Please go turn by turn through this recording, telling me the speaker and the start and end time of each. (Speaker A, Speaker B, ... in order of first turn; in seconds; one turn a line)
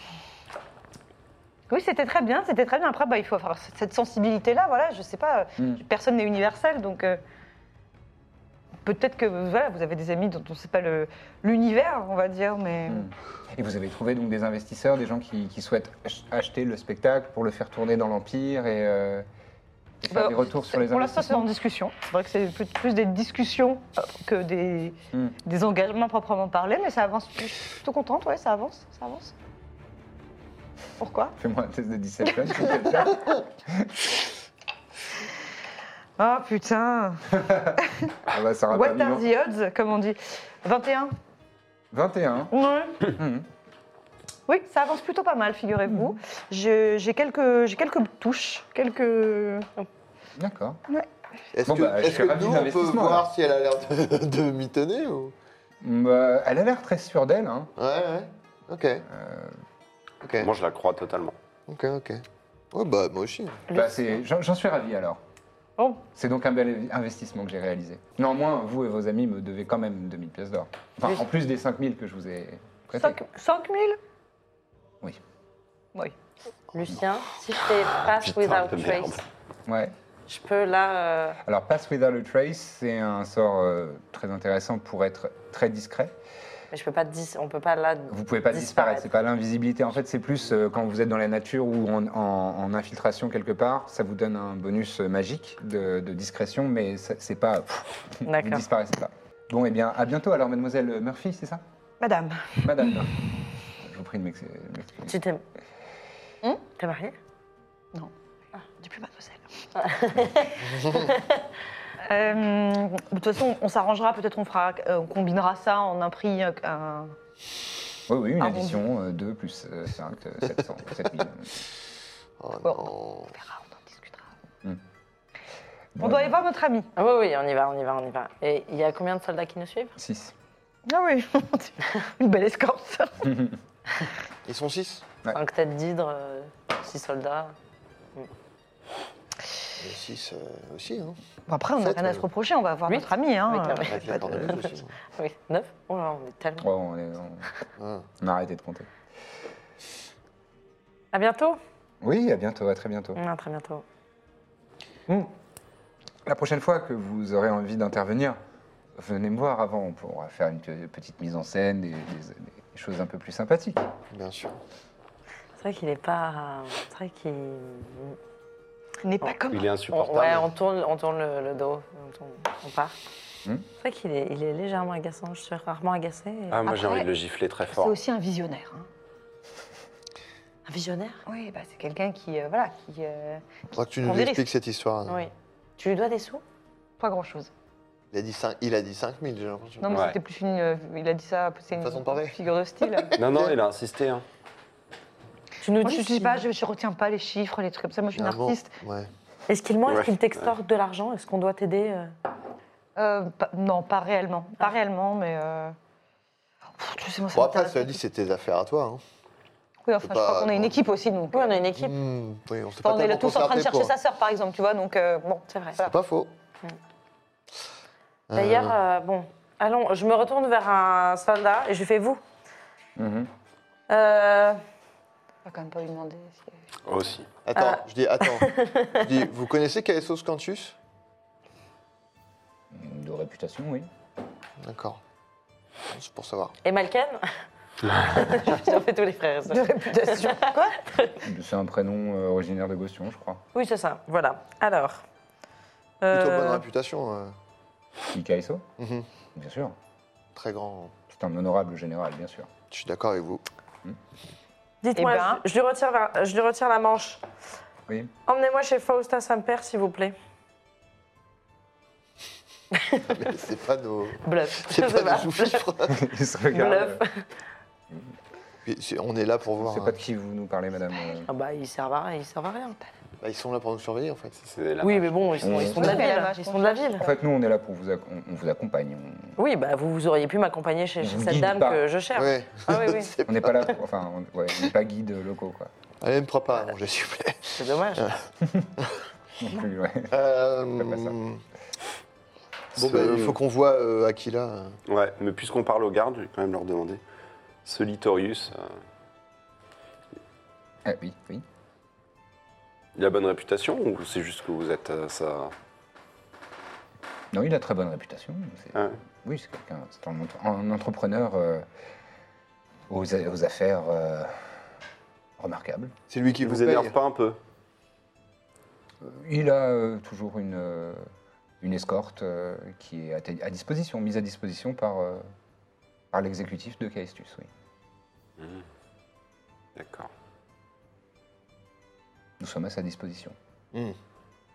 Speaker A: 1.7-7.2
Speaker A: 8.8-13.1
Speaker B: 12.9-19.3
Speaker B: 20.0-21.5
Speaker A: 20.1-29.3
Speaker A: 31.0-31.3
Speaker B: 31.4-34.1
Speaker A: 32.5-33.0
Speaker A: 36.2-38.1
Speaker B: 37.4-37.8
Speaker B: 38.3-39.2
Speaker A: 38.7-41.1
Speaker B: 41.9-42.5
Speaker A: 42.5-43.1
Speaker B: 43.2-43.5
Speaker A: 44.5-49.7
Speaker B: 50.4-50.8
Speaker C: 51.5-55.3
Speaker B: 51.7-53.3
Speaker B: 55.8-57.7
Speaker C: 57.8-59.1
Speaker B: 59.1-59.6
Speaker C: 60.2-60.5
Speaker D: 60.4-61.4
Speaker C: 61.7-63.6
Speaker B: 63.7-65.2
Speaker B: 66.1-73.2
Speaker A: 72.9-74.0
Speaker E: 76.7-79.2
Speaker D: 78.0-79.2
Speaker B: 79.7-79.9
Speaker E: 80.3-81.4
Speaker B: 81.5-86.2
Speaker E: 86.7-89.1
Speaker B: 88.1-101.6
Speaker E: 98.3-98.7
Speaker A: 102.0-103.1
Speaker B: 102.6-103.2
Speaker B: 103.8-105.1
Speaker E: 105.0-105.4
Speaker E: 106.8-107.2
Speaker A: 108.8-109.5
Speaker E: 109.8-111.4
Speaker C: 110.6-111.1
Speaker A: 112.0-117.2
Speaker B: 118.1-121.5
Speaker A: 118.4-118.8
Speaker C: 122.4-123.3
Speaker A: 122.6-124.3
Speaker B: 126.0-126.4
Speaker A: 126.0-126.9
Speaker E: 127.0-130.0
Speaker B: 130.0-130.3
Speaker A: 130.9-133.3
Speaker B: 133.2-133.6
Speaker C: 134.4-135.1
Speaker E: 135.3-137.6
Speaker C: 139.8-141.2
Speaker A: 141.5-144.6
Speaker C: 141.8-142.2
Speaker E: 142.9-146.7
Speaker C: 143.8-145.0
Speaker B: 146.6-147.5
Speaker C: 147.8-148.1
Speaker B: 148.2-148.9
Speaker E: 151.1-151.6
Speaker B: 152.0-153.2
Speaker E: 153.2-153.8
Speaker B: 156.2-158.4
Speaker B: 158.9-163.9
Speaker C: 164.1-164.6
Speaker E: 165.6-168.2
Speaker A: 169.0-169.7
Speaker D: 169.5-170.5
Speaker E: 169.9-172.9
Speaker E: 173.8-176.6
Speaker D: 176.5-178.0
Speaker A: 176.7-177.1
Speaker A: 177.7-178.9
Speaker E: 180.7-181.2
Speaker A: 181.3-184.5
Speaker C: 183.8-185.2
Speaker E: 185.1-186.4
Speaker A: 187.0-187.5
Speaker C: 188.1-190.0
Speaker A: 189.8-193.2
Speaker D: 189.9-190.2
Speaker C: 191.7-193.6
Speaker D: 193.2-194.2
Speaker E: 195.6-196.5
Speaker A: 195.8-198.7
Speaker C: 198.1-199.1
Speaker E: 199.5-202.1
Speaker D: 199.9-200.5
Speaker A: 203.0-205.8
Speaker A: 206.8-208.0
Speaker C: 207.3-209.0
Speaker A: 209.8-211.6
Speaker C: 210.0-210.8
Speaker E: 211.3-212.0
Speaker C: 211.8-213.9
Speaker A: 212.8-215.9
Speaker E: 215.5-215.8
Speaker C: 215.8-216.3
Speaker C: 218.3-218.8
Speaker E: 218.3-222.2
Speaker B: 223.0-223.3
Speaker E: 223.9-224.6
Speaker A: 225.4-226.6
Speaker D: 226.9-227.3
Speaker C: 227.4-230.8
Speaker E: 227.6-229.0
Speaker B: 232.7-233.9
Speaker C: 234.6-235.0
Speaker C: 235.9-236.5
Speaker E: 236.6-237.4
Speaker E: 238.0-241.2
Speaker A: 239.5-240.8
Speaker B: 241.2-243.4
Speaker E: 243.5-245.0
Speaker E: 246.0-246.7
Speaker C: 246.1-247.4
Speaker B: 248.1-248.7
Speaker C: 248.8-249.1
Speaker B: 249.3-249.8
Speaker C: 250.3-250.9
Speaker B: 251.1-252.5
Speaker C: 252.7-253.4
Speaker E: 254.8-257.2
Speaker A: 255.0-255.4
Speaker E: 258.3-260.1
Speaker E: 262.7-263.2
Speaker C: 263.1-266.0
Speaker E: 264.2-265.6
Speaker B: 265.9-267.0
Speaker E: 266.5-267.2
Speaker C: 268.6-269.9
Speaker B: 269.6-271.3
Speaker E: 271.3-272.8
Speaker C: 273.2-274.4
Speaker D: 274.4-275.7
Speaker E: 274.8-277.1
Speaker B: 275.4-276.0
Speaker A: 275.6-277.1
Speaker B: 277.0-279.4
Speaker E: 279.4-283.1
Speaker B: 281.0-281.9
Speaker C: 282.1-283.8
Speaker B: 283.2-285.7
Speaker C: 286.0-289.0
Speaker E: 287.6-288.1
Speaker B: 289.4-290.1
Speaker C: 290.1-291.4
Speaker B: 290.8-291.2
Speaker D: 292.8-293.4
Speaker C: 292.8-294.8
Speaker D: 294.9-297.0
Speaker D: 297.6-298.8
Speaker B: 300.9-301.4
Speaker D: 303.0-305.5
Speaker B: 307.3-311.7
Speaker D: 308.7-309.0
Speaker B: 312.9-314.5
Speaker B: 315.4-315.9
Speaker C: 316.1-316.9
Speaker D: 316.4-317.4
Speaker B: 319.0-321.1
Speaker B: 321.6-325.3
Speaker B: 326.1-327.5
Speaker D: 328.4-328.7
Speaker D: 329.8-330.1
Speaker B: 332.4-333.4